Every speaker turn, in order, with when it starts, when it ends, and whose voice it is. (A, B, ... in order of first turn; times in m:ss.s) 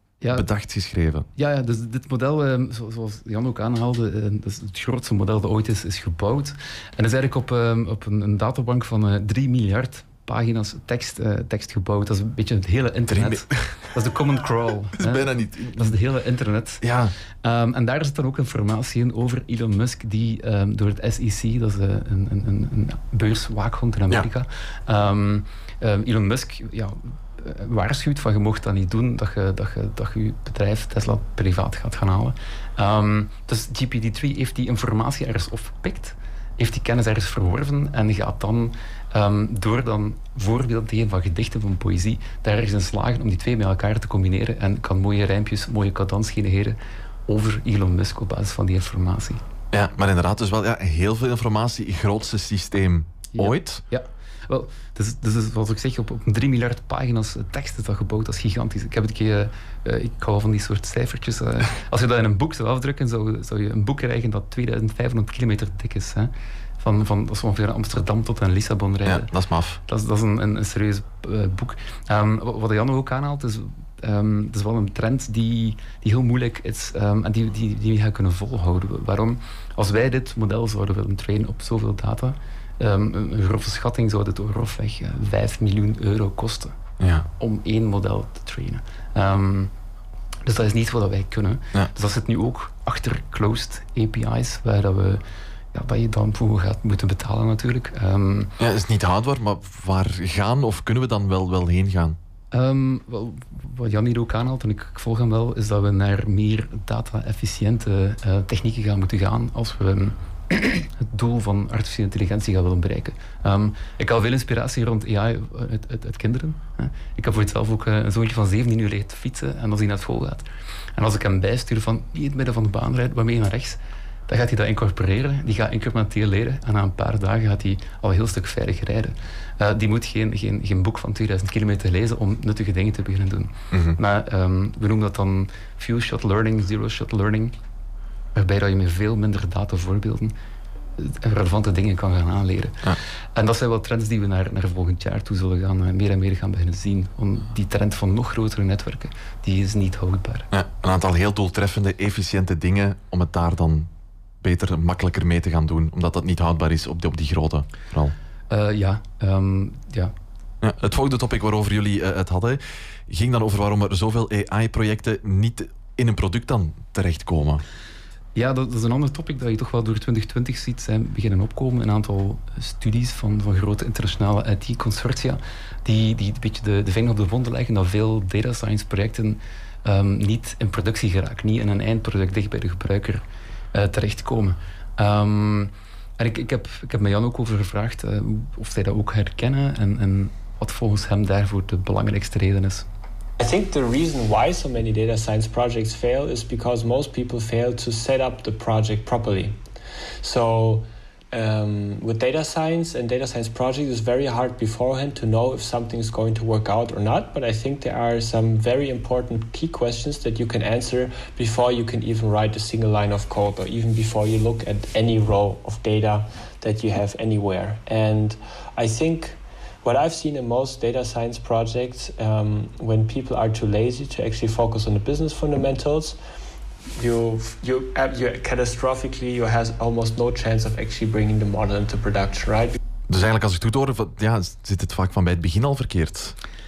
0:00.2-0:00.5 A
0:00.3-0:01.2 B
0:01.4-0:16.8 A
0:13.1-0:13.8 B
0:15.0-0:15.9 B
0:16.8-0:17.1 B
0:17.4-0:49.4 A
0:49.7-0:53.8 B
0:53.3-1:09.3 A
1:09.0-1:09.8 B
1:09.8-1:26.7 A
1:27.0-1:27.2 B
1:27.3-1:29.7 A
1:30.4-1:38.5 A
1:38.6-1:42.2 B
1:42.5-2:00.4 A
2:01.0-2:17.5 A
2:13.7-2:14.0 B
2:18.3-2:20.3 A
2:21.0-2:30.5 A
2:30.5-2:33.9 B
2:34.4-2:38.1 B
2:38.5-2:40.1 A
2:40.6-2:47.6 B
2:48.3-3:12.9 A
3:13.4-3:19.6 C
3:20.2-3:46.2 C
3:46.9-3:52.8 C
3:53.1-3:56.4 B